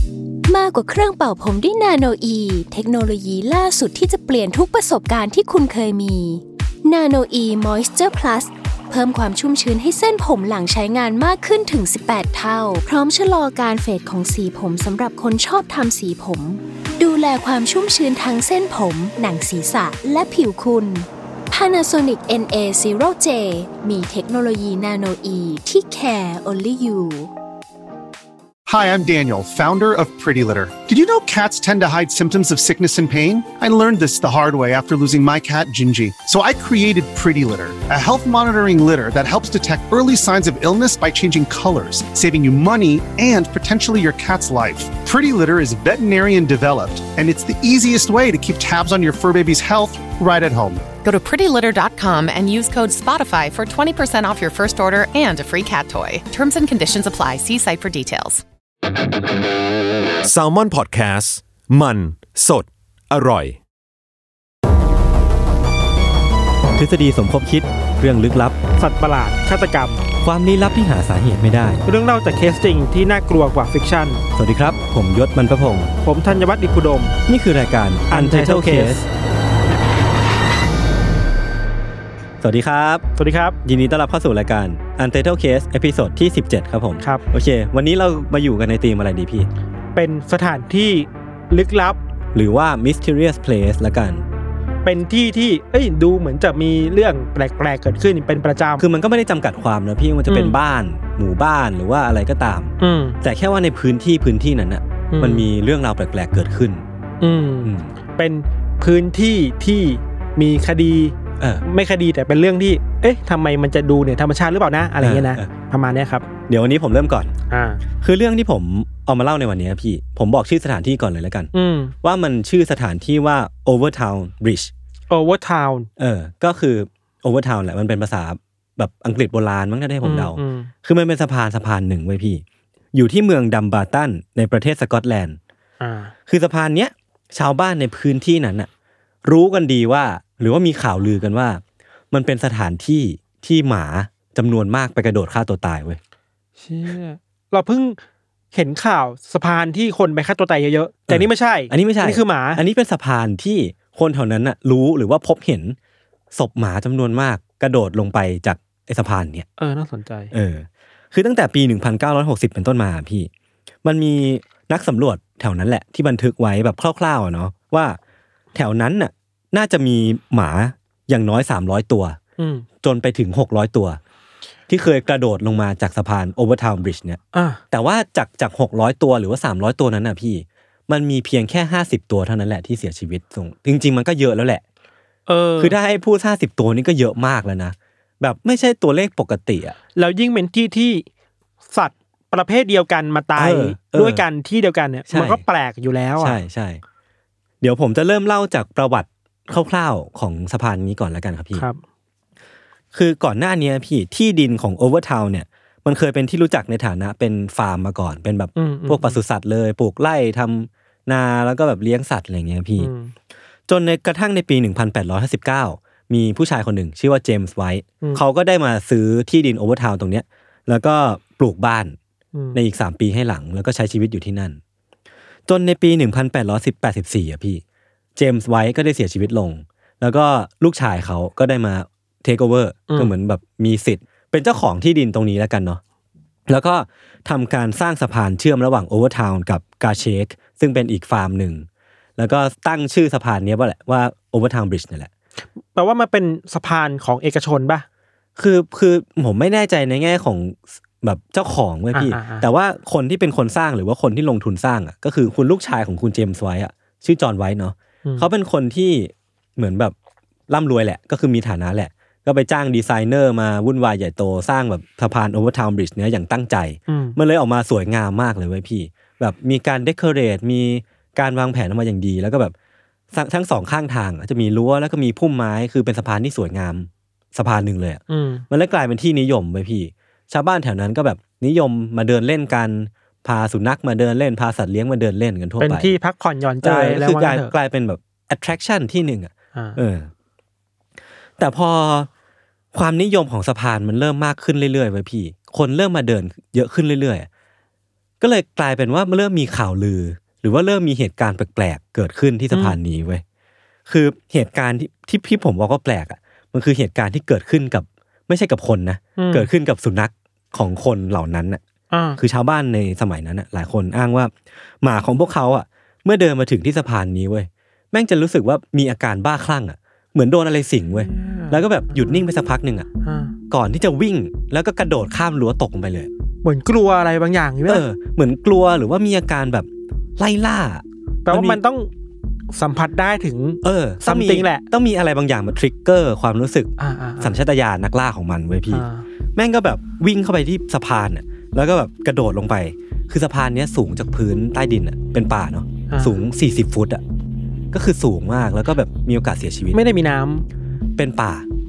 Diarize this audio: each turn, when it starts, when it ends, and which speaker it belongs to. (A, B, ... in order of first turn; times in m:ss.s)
0:00.5-0:27.3 A
0:28.7-0:50.9 B
0:51.0-0:58.4 C
1:00.2-1:03.6 D
1:06.8-1:08.6 E
1:08.8-1:10.0 F
1:10.2-1:11.8 E
1:11.9-1:14.2 F
1:14.4-1:15.9 E
1:16.0-1:17.2 F
1:17.3-1:19.0 E
1:18.1-1:19.0 F
1:22.4-1:23.0 E
1:23.2-1:23.6 F
1:23.6-1:29.5 E
1:29.9-1:32.0 F
1:32.3-1:34.2 E
1:34.8-1:38.8 F
1:38.8-1:46.9 E
1:40.3-1:40.6 F
1:42.8-1:43.2 F
1:45.1-1:45.5 F
1:47.2-1:56.2 F
1:47.6-1:47.9 E
1:55.0-1:55.5 E
1:56.5-1:57.3 E
1:57.5-1:57.8 F
1:58.0-2:01.5 E
2:01.5-2:01.9 F
2:02.0-2:04.7 E
2:05.1-2:05.9 F
2:06.0-2:12.4 E
2:10.0-2:10.7 F
2:12.9-2:15.4 E
2:15.8-2:16.1 F
2:16.3-2:18.7 E
2:19.2-2:26.0 E
2:26.6-2:28.0 F
2:28.5-2:32.6 F
2:31.1-2:35.8 E
2:36.3-2:39.5 E
2:39.6-2:40.3 F
2:40.3-2:43.3 E
2:43.8-2:48.0 E
2:48.6-2:52.2 E
2:52.4-2:52.7 F
2:52.8-2:54.0 E
2:54.7-2:57.2 E
2:57.3-2:57.6 F
2:57.7-3:04.6 E
3:05.3-3:05.8 F
3:05.6-3:09.8 E
3:10.0-3:11.0 F
3:11.7-3:16.4 F
3:13.4-3:14.2 E
3:15.1-3:15.4 E
3:16.2-3:16.8 E
3:17.6-3:21.7 E
3:21.6-3:21.8 F
3:22.9-3:32.9 E
3:28.6-3:29.2 F
3:32.8-3:33.1 F
3:33.7-3:42.0 E
3:42.3-3:42.6 F
3:42.5-3:44.6 E
3:45.5-3:47.6 E
3:48.2-3:55.8 E
3:56.5-4:01.7 E
4:02.2-4:05.1 E
4:05.6-4:07.9 F
4:08.4-4:19.9 E
4:11.9-4:12.5 F
4:20.5-4:32.5 E
4:26.9-4:27.2 F
4:33.1-4:45.9 E
4:38.1-4:38.4 F
4:45.6-4:47.6 F
4:46.6-4:50.1 E
4:51.4-4:52.1 E
4:52.7-4:57.3 E
4:58.2-5:03.2 E
5:02.5-5:02.8 F
5:03.9-5:11.6 E
5:09.2-5:09.5 F
5:11.9-5:12.2 F
5:12.2-5:22.9 E
5:21.0-5:22.2 F
5:23.0-5:23.3 F
5:23.5-5:26.1 E
5:26.4-5:27.9 F
5:27.7-5:31.6 E
5:31.2-5:31.9 F
5:32.5-5:34.6 F
5:33.6-5:38.8 E
5:36.8-5:37.4 F
5:38.7-5:39.1 F
5:39.4-5:47.0 E
5:45.9-5:46.2 F
5:47.7-5:49.8 E
5:49.7-5:50.5 F
5:51.0-5:51.5 E